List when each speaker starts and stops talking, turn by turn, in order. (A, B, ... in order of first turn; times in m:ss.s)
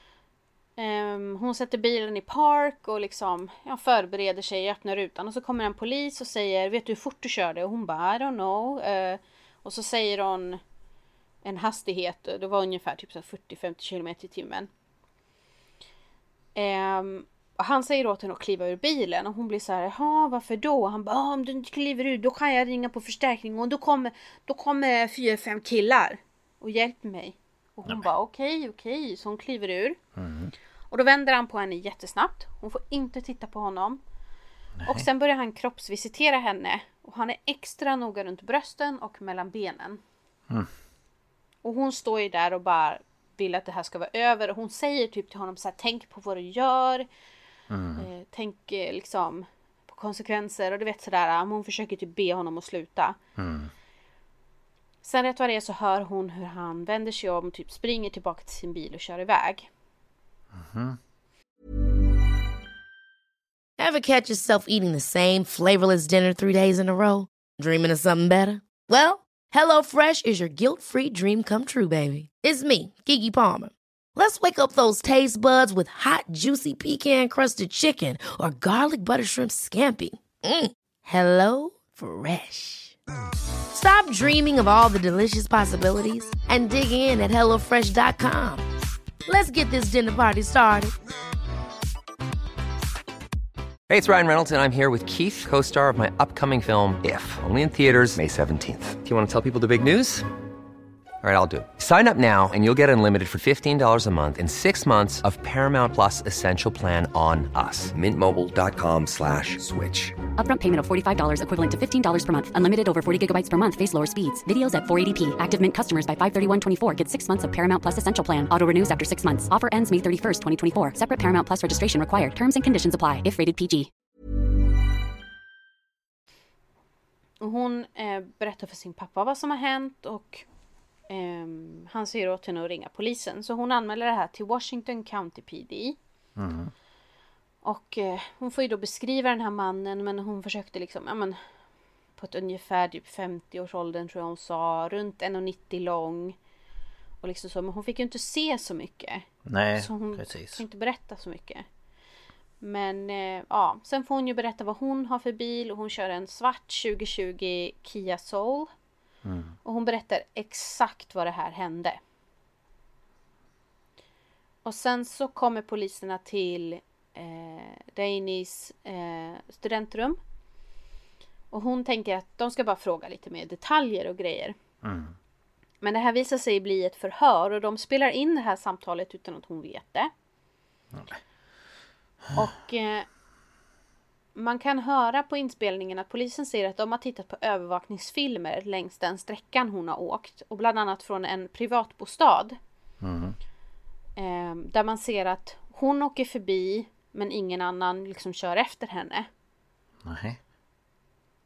0:00.8-0:10.6 A
0:11.4-0:14.7 A
0:16.6-0:30.0 A
0:30.2-0:30.5 B
0:30.9-0:34.0 A
0:34.8-0:35.1 B
0:34.9-0:40.0 A
0:41.6-0:47.1 A
0:47.7-0:48.1 B
0:48.0-0:53.2 A
0:53.4-0:53.7 B
0:55.0-0:59.7 A
1:00.5-1:01.0 B
1:03.8-1:23.0 C
1:23.7-1:28.7 C
1:29.3-1:30.9 C
1:33.9-1:40.3 D
1:41.2-1:50.2 D
1:50.3-2:03.9 E
2:07.4-2:10.4 A
2:11.1-2:16.0 A
2:16.4-2:16.7 B
2:17.6-2:21.4 A
2:22.2-2:26.4 A
2:27.2-2:31.7 A
2:29.4-2:30.6 B
2:32.6-2:38.7 A
2:39.2-2:39.6 B
2:39.6-2:42.0 A
2:44.6-2:50.2 A
2:51.5-2:54.6 A
2:54.8-2:55.2 B
2:55.8-3:00.1 A
3:00.9-3:01.2 B
3:02.3-3:03.1 A
3:04.4-3:12.6 A
3:13.0-3:13.4 B
3:14.2-3:19.3 A
3:20.0-3:20.4 B